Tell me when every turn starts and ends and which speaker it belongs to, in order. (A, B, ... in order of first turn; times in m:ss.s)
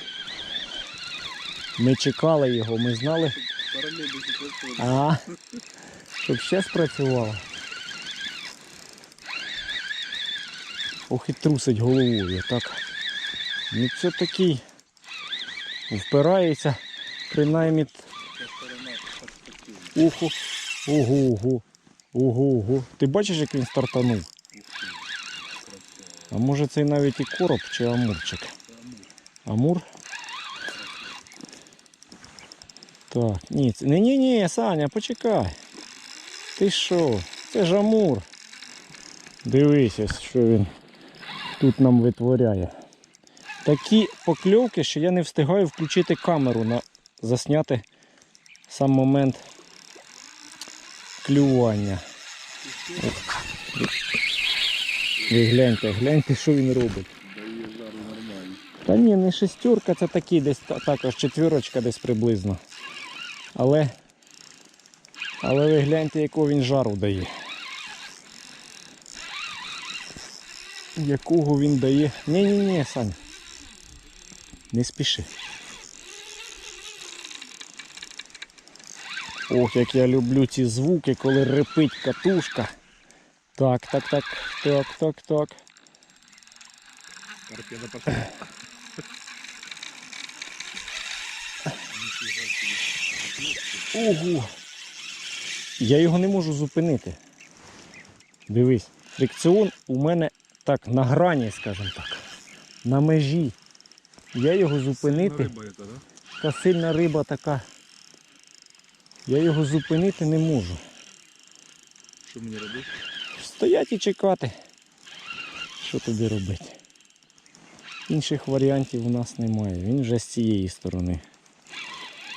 0:01.8-0:03.4 A
0:03.2-0:05.4 B
0:04.8-0:05.2 A
0:06.2-0:07.4 A
0:11.1-0:12.8 A
0:13.7-0:14.6 A
0:15.9-0:16.8 A
0:17.3-0:18.0 A
0:17.6-0:20.1 B
0:19.9-0:24.3 A
0:24.5-0:26.4 B
0:26.3-0:28.5 A
0:28.7-0:29.1 B
0:29.4-0:29.8 A
0:30.6-0:31.3 B
0:33.1-0:35.6 A
0:36.6-0:38.2 A
0:39.4-0:40.7 A
0:41.6-0:42.7 A
0:43.6-0:47.8 A
0:48.7-0:49.4 A
0:51.2-0:52.0 A
0:52.6-0:53.3 B
0:55.3-0:57.1 A
0:57.2-0:58.6 B
0:58.8-1:02.6 A
1:03.5-1:03.9 A
1:05.4-1:07.3 A
1:11.0-1:13.2 A
1:14.7-1:15.3 A
1:19.5-1:22.7 A
1:23.6-1:25.6 A
1:27.4-1:28.4 B
1:31.9-1:34.2 B
1:33.9-1:34.5 A
1:35.8-1:37.2 A
1:38.5-1:42.2 A
1:42.8-1:43.6 A
1:44.3-1:45.5 A
1:44.9-1:46.0 B
1:46.4-1:47.6 A
1:49.3-1:50.8 A
1:52.2-1:52.9 B
1:53.4-1:54.5 A
1:55.8-1:56.8 A
1:58.1-2:01.2 A